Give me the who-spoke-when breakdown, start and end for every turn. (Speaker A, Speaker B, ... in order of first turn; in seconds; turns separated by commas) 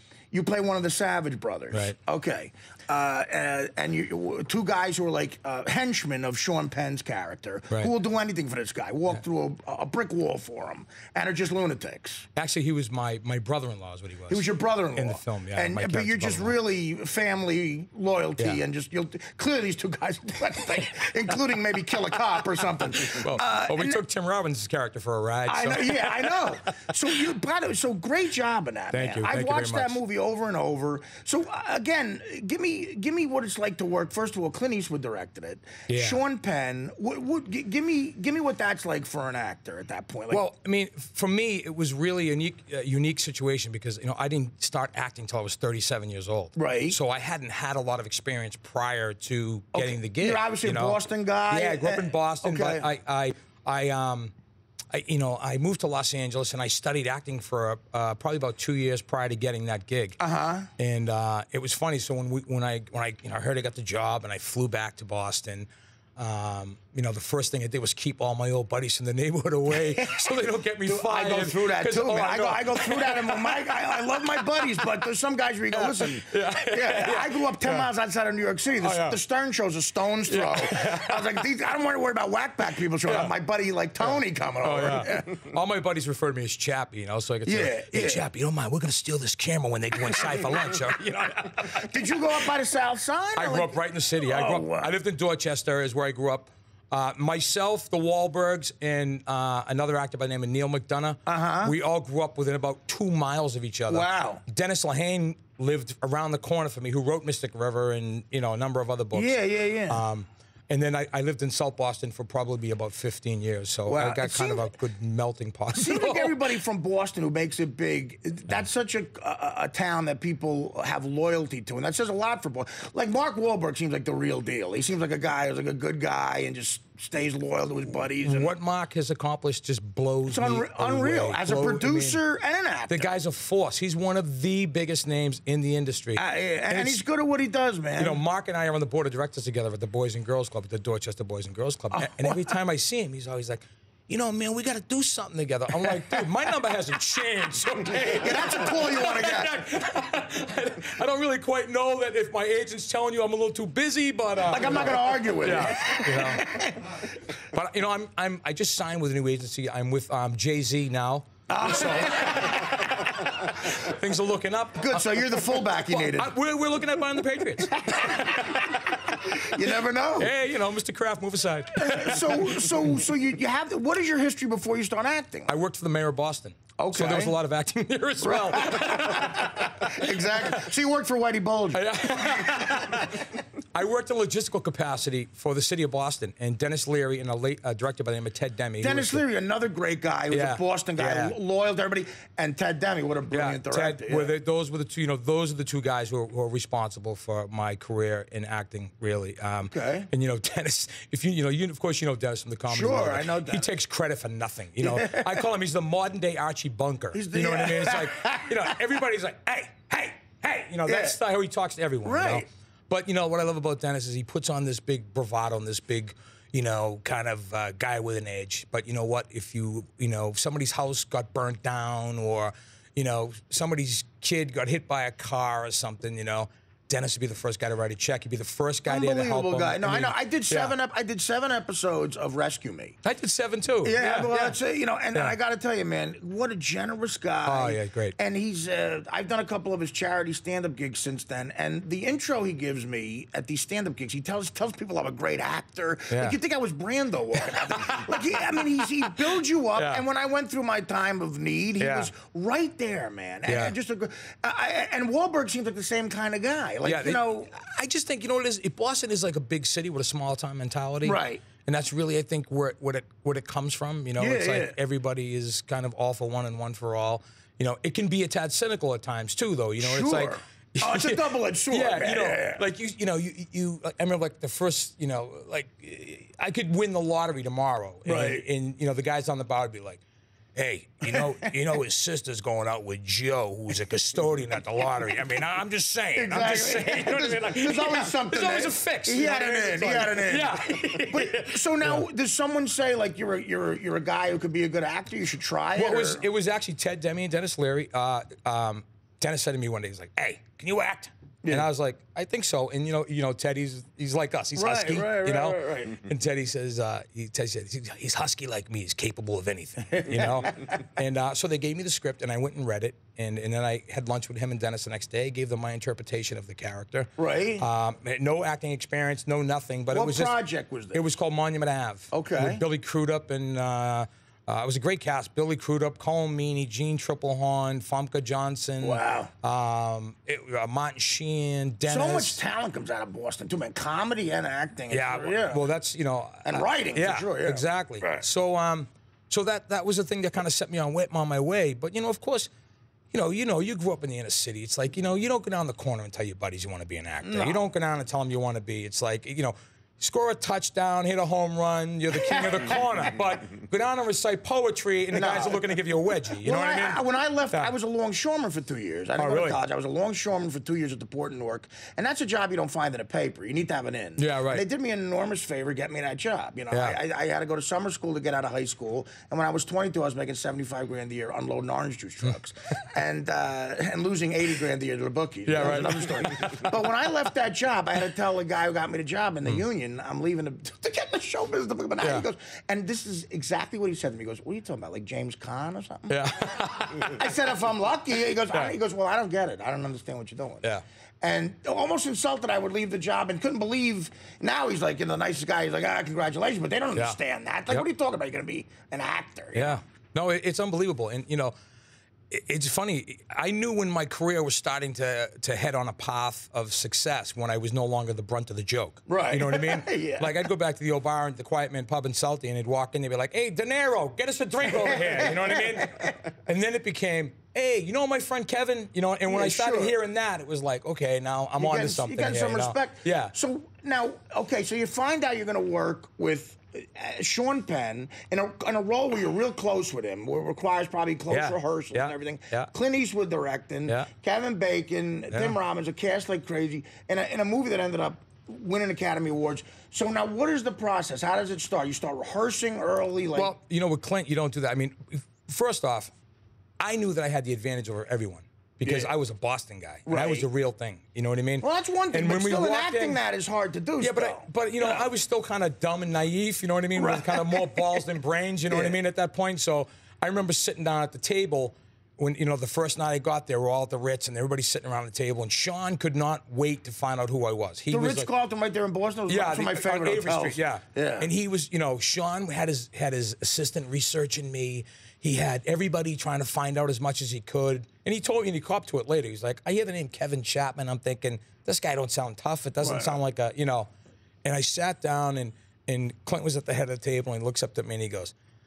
Speaker A: 0.3-12.3, Speaker B: 12.3-14.4, Speaker A: 14.3-24.0, Speaker B: 14.9-16.5, Speaker B: 23.0-26.5, Speaker A: 25.5-40.4, Speaker B: 28.9-30.0, Speaker B: 35.9-36.2, Speaker B: 40.3-54.3, Speaker A: 46.5-47.0, Speaker A: 49.7-52.9, Speaker B: 54.9-60.2, Speaker A: 60.2-60.7, Speaker B: 60.8-74.8, Speaker A: 69.7-85.4, Speaker B: 75.7-77.9, Speaker B: 78.8-79.2, Speaker B: 80.3-81.4, Speaker B: 83.0-83.3, Speaker B: 84.0-92.3, Speaker A: 87.5-88.2, Speaker A: 91.8-94.9, Speaker B: 93.3-109.4, Speaker A: 101.2-101.7, Speaker A: 103.9-104.4, Speaker A: 109.1-110.0, Speaker B: 109.9-116.5, Speaker A: 113.9-114.7, Speaker A: 115.7-128.5, Speaker B: 128.2-132.2, Speaker A: 130.3-133.1, Speaker B: 132.9-137.0, Speaker A: 136.2-138.2, Speaker B: 138.0-156.6, Speaker A: 141.9-142.5, Speaker A: 145.9-146.2, Speaker A: 148.0-149.6, Speaker A: 154.4-157.0, Speaker B: 157.5-169.3, Speaker A: 161.5-163.9, Speaker A: 164.8-166.3, Speaker A: 167.7-170.3, Speaker B: 170.2-172.8, Speaker A: 171.8-175.5, Speaker B: 175.5-180.6, Speaker A: 176.8-177.3, Speaker A: 178.2-183.0, Speaker B: 181.7-189.2, Speaker A: 188.8-194.3, Speaker B: 190.3-191.3, Speaker B: 193.3-230.7, Speaker A: 199.6-200.1, Speaker A: 202.7-203.7, Speaker A: 204.8-205.4, Speaker A: 207.1-208.8, Speaker A: 210.8-211.2, Speaker A: 212.0-212.4, Speaker A: 228.9-233.0, Speaker B: 233.0-234.6, Speaker A: 233.8-257.5, Speaker B: 237.4-238.2, Speaker B: 246.1-246.4, Speaker B: 247.5-248.1, Speaker B: 249.8-250.0, Speaker B: 251.8-252.1, Speaker B: 253.5-253.8, Speaker B: 256.8-280.0, Speaker A: 261.0-261.4, Speaker A: 264.2-264.8, Speaker A: 269.8-272.6, Speaker A: 278.1-278.4, Speaker B: 280.6-292.1, Speaker A: 281.1-281.5, Speaker A: 286.2-296.2, Speaker B: 295.8-320.4, Speaker A: 304.6-306.0, Speaker A: 309.9-310.7, Speaker A: 317.2-317.7, Speaker A: 319.9-321.0, Speaker B: 320.9-332.4, Speaker A: 322.1-322.6, Speaker A: 328.8-329.3, Speaker A: 331.9-335.7, Speaker B: 334.9-342.5, Speaker A: 336.5-338.2, Speaker B: 343.1-357.7, Speaker A: 347.2-347.6, Speaker A: 352.1-352.8, Speaker A: 355.1-355.7, Speaker A: 356.3-390.7, Speaker B: 359.2-359.6, Speaker B: 364.2-364.6, Speaker B: 366.7-367.0, Speaker B: 375.5-376.8, Speaker B: 382.0-382.2, Speaker B: 386.1-387.2, Speaker A: 391.2-399.8, Speaker B: 399.5-401.5, Speaker B: 402.3-423.3, Speaker A: 409.1-410.5, Speaker A: 414.7-416.2, Speaker A: 419.3-420.0, Speaker A: 421.6-443.6, Speaker B: 431.3-432.7, Speaker B: 443.4-446.1, Speaker B: 446.8-453.2, Speaker A: 448.8-449.1, Speaker A: 450.1-450.5, Speaker A: 451.6-455.1, Speaker B: 454.0-468.3, Speaker A: 456.9-458.0, Speaker A: 458.7-459.0, Speaker A: 467.9-471.3, Speaker B: 469.3-483.9, Speaker A: 482.8-483.2, Speaker B: 484.4-488.3